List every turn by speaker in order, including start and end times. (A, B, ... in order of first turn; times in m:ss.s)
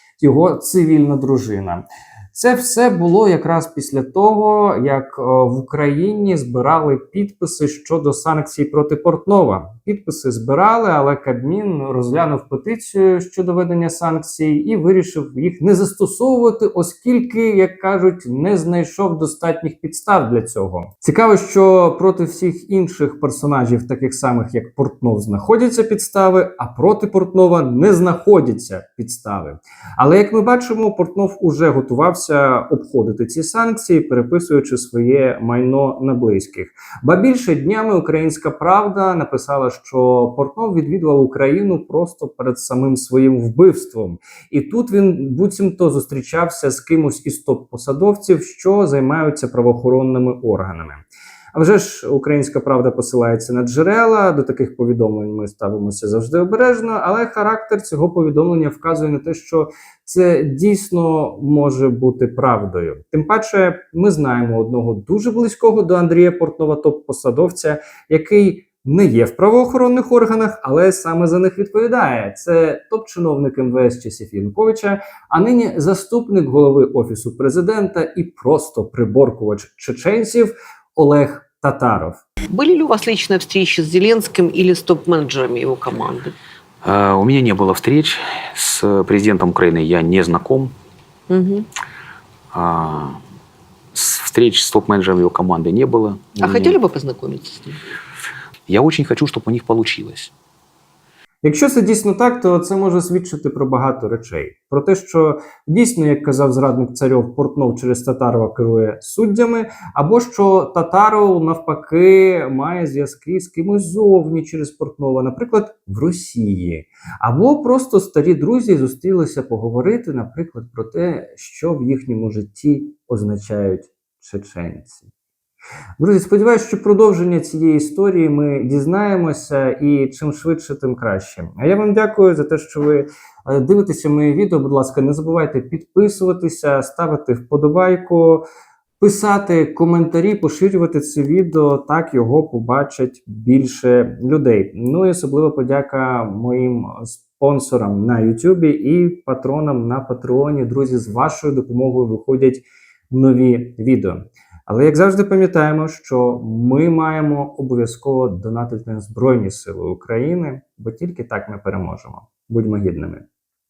0:00.2-0:51.0 A
0:51.5-1:22.2 A
1:22.5-1:26.4 B
1:26.8-1:30.7 C
1:31.3-1:31.7 B
1:32.5-1:33.2 C
1:33.9-1:36.8 C
1:36.4-1:37.8 B
1:38.7-1:40.3 C
1:41.4-2:05.1 A
2:06.0-2:18.4 A
2:19.0-2:43.2 A